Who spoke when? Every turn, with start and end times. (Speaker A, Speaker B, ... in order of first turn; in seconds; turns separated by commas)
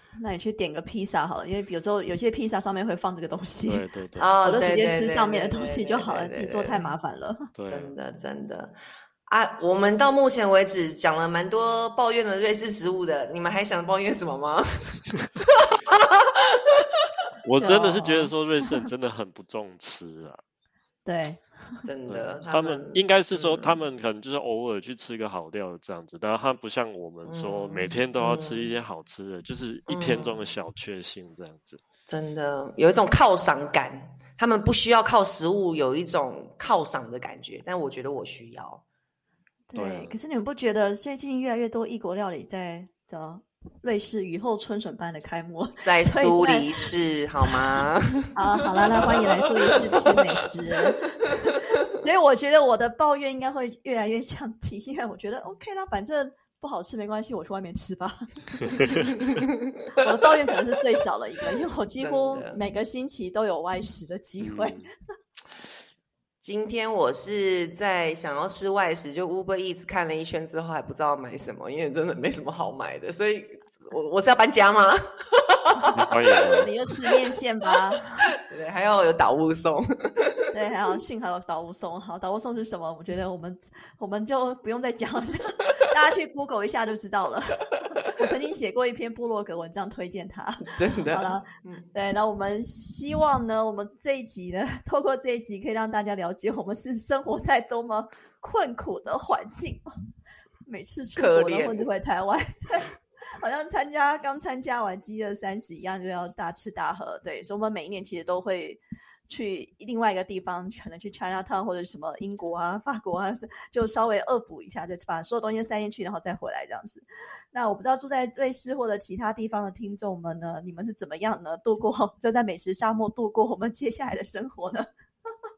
Speaker A: 0.2-3.8, Speaker B: 3.6-4.3, Speaker C: 4.2-6.9, Speaker A: 4.4-7.5, Speaker B: 7.5-7.9, Speaker C: 7.7-16.8, Speaker B: 17.4-20.4, Speaker A: 17.6-18.3, Speaker A: 21.0-21.6, Speaker C: 21.8-23.8, Speaker B: 22.1-31.8, Speaker C: 27.2-28.7, Speaker C: 29.9-30.4, Speaker C: 32.1-38.8, Speaker A: 39.7-46.9, Speaker B: 39.7-40.1, Speaker C: 45.8-50.2, Speaker A: 48.3-58.9, Speaker C: 59.2-59.5, Speaker A: 60.0-64.8, Speaker C: 62.0-62.6, Speaker B: 64.4-64.9, Speaker C: 66.4-76.1, Speaker B: 75.9-76.7, Speaker A: 76.6-78.3, Speaker C: 78.3-80.5, Speaker A: 80.5-99.8, Speaker C: 90.7-91.9, Speaker A: 100.7-124.9, Speaker C: 101.2-101.9